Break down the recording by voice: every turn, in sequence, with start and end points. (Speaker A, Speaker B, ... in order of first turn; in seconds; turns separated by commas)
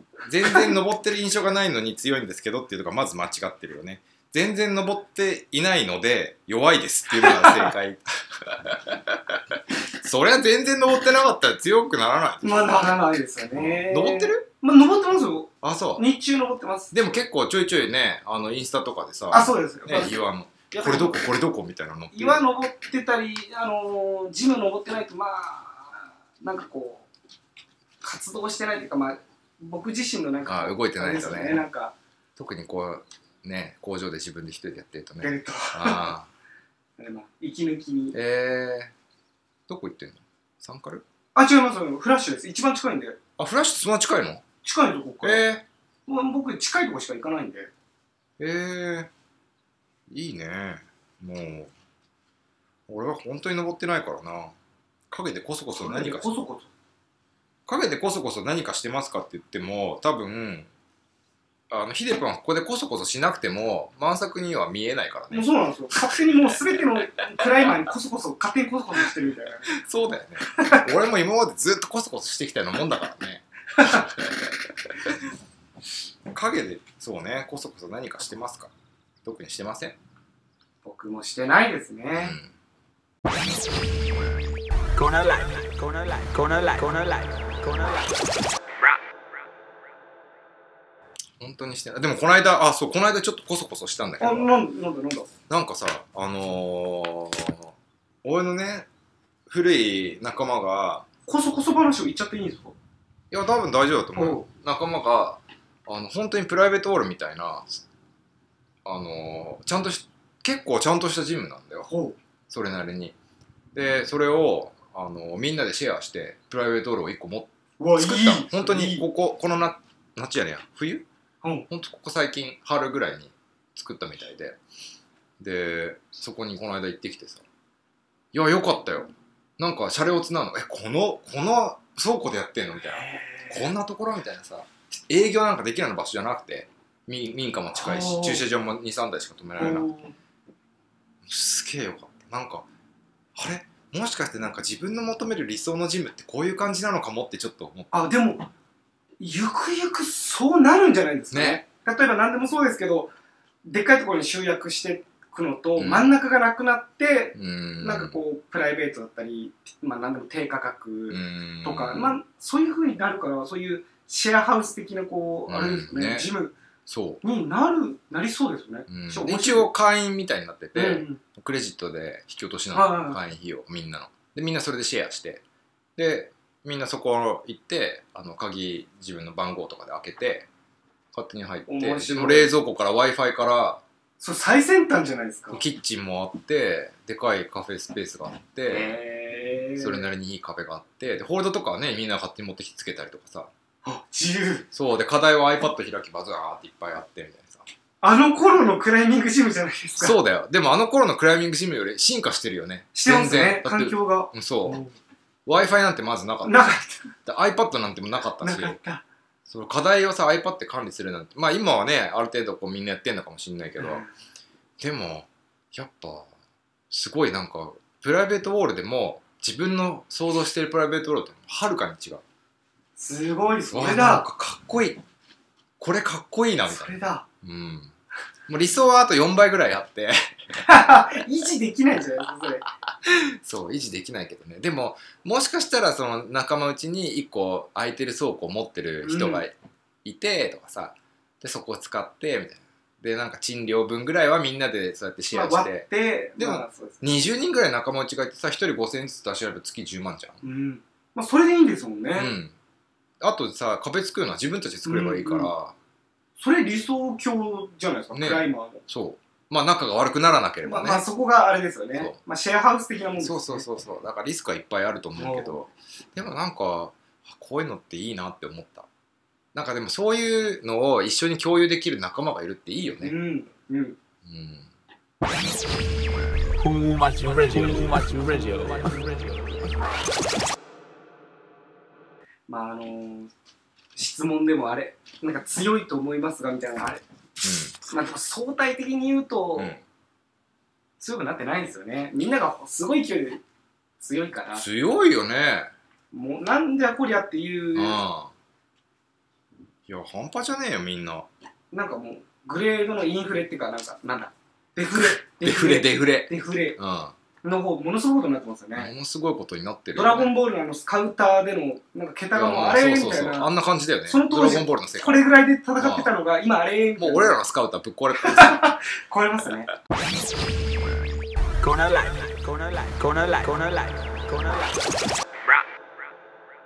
Speaker A: 0.3-14.5, Speaker B: 7.2-7.7, Speaker B: 12.4-17.0, Speaker A: 15.6-16.0, Speaker A: 16.9-22.4, Speaker B: 19.3-21.1, Speaker B: 22.1-27.1, Speaker B: 28.0-31.9, Speaker A: 30.4-31.6, Speaker A: 32.4-36.3, Speaker B: 35.2-36.1, Speaker B: 37.0-38.2, Speaker A: 38.1-38.9, Speaker A: 39.7-41.0, Speaker B: 41.4-43.2, Speaker A: 43.4-44.4, Speaker B: 44.6-45.5, Speaker A: 45.2-45.7, Speaker B: 46.1-47.7, Speaker A: 48.4-49.1, Speaker A: 50.1-51.7, Speaker A: 52.9-54.5, Speaker A: 55.1-56.3, Speaker B: 55.8-56.7, Speaker A: 57.7-60.7, Speaker A: 61.7-66.1, Speaker B: 65.3-69.7, Speaker A: 69.7-74.5, Speaker A: 76.3-78.7, Speaker A: 79.2-80.0, Speaker B: 80.8-82.4, Speaker A: 82.2-82.5, Speaker C: 84.9-88.3, Speaker A: 91.4-94.5, Speaker B: 94.2-95.3, Speaker A: 95.5-97.7, Speaker A: 98.2-98.9, Speaker A: 99.5-101.1, Speaker B: 101.3-102.8, Speaker A: 103.3-107.8, Speaker B: 104.2-104.4, Speaker A: 108.8-111.9, Speaker B: 111.9-112.2, Speaker A: 112.5-113.1, Speaker A: 113.7-121.0, Speaker B: 117.8-119.0, Speaker A: 121.7-124.6, Speaker A: 125.4-127.4, Speaker A: 128.3-139.9, Speaker B: 133.0-133.6, Speaker B: 137.8-138.4, Speaker B: 139.6-140.1, Speaker A: 141.3-142.7, Speaker A: 143.3-147.9, Speaker B: 147.9-148.5, Speaker B: 149.2-153.1, Speaker A: 151.3-151.6, Speaker B: 153.7-166.6, Speaker A: 155.8-156.1, Speaker A: 157.3-158.2, Speaker A: 161.1-162.2, Speaker A: 165.5-166.3, Speaker A: 166.9-167.2, Speaker B: 167.2-169.7, Speaker A: 168.9-175.4, Speaker B: 170.8-171.2, Speaker B: 172.7-173.2, Speaker A: 176.0-180.5, Speaker A: 181.1-183.8, Speaker B: 181.7-182.5, Speaker B: 184.2-185.6, Speaker A: 185.5-188.9, Speaker B: 188.7-190.0, Speaker A: 189.8-193.5, Speaker B: 193.8-194.7, Speaker A: 194.7-197.7, Speaker B: 198.0-200.2, Speaker A: 200.0-204.8, Speaker B: 202.9-204.9, Speaker A: 205.5-208.8, Speaker B: 206.4-207.1, Speaker B: 208.4-209.0, Speaker A: 209.5-214.0, Speaker B: 213.8-214.1, Speaker A: 214.8-216.3, Speaker A: 216.9-222.2, Speaker B: 223.0-224.2, Speaker A: 223.7-225.0, Speaker A: 225.8-227.9, Speaker B: 226.7-227.3, Speaker A: 228.5-230.2, Speaker B: 230.7-232.7, Speaker A: 233.1-245.8, Speaker B: 239.0-239.4, Speaker B: 245.3-247.0, Speaker A: 246.4-250.4, Speaker B: 250.4-252.3, Speaker A: 252.1-252.5, Speaker A: 253.2-255.7, Speaker B: 254.9-255.5, Speaker B: 256.4-258.8, Speaker A: 258.1-261.1, Speaker B: 260.6-263.6, Speaker A: 263.2-268.9, Speaker B: 265.2-265.6, Speaker A: 269.5-273.1, Speaker B: 273.0-274.0, Speaker A: 274.2-274.7, Speaker C: 276.6-279.7, Speaker B: 282.5-283.3, Speaker B: 284.0-287.0, Speaker A: 287.4-287.8, Speaker B: 287.9-289.8, Speaker A: 289.6-289.8, Speaker B: 291.0-293.4, Speaker B: 294.0-294.6, Speaker A: 294.5-295.7, Speaker B: 296.1-298.0, Speaker A: 297.7-298.3, Speaker A: 299.9-301.3, Speaker B: 301.7-306.8, Speaker A: 304.9-307.1, Speaker B: 307.4-308.9, Speaker A: 308.8-310.3, Speaker B: 309.9-313.5, Speaker A: 312.3-315.3, Speaker B: 314.1-317.4, Speaker A: 315.8-316.1, Speaker A: 317.0-318.7, Speaker B: 318.2-319.7, Speaker C: 321.6-325.0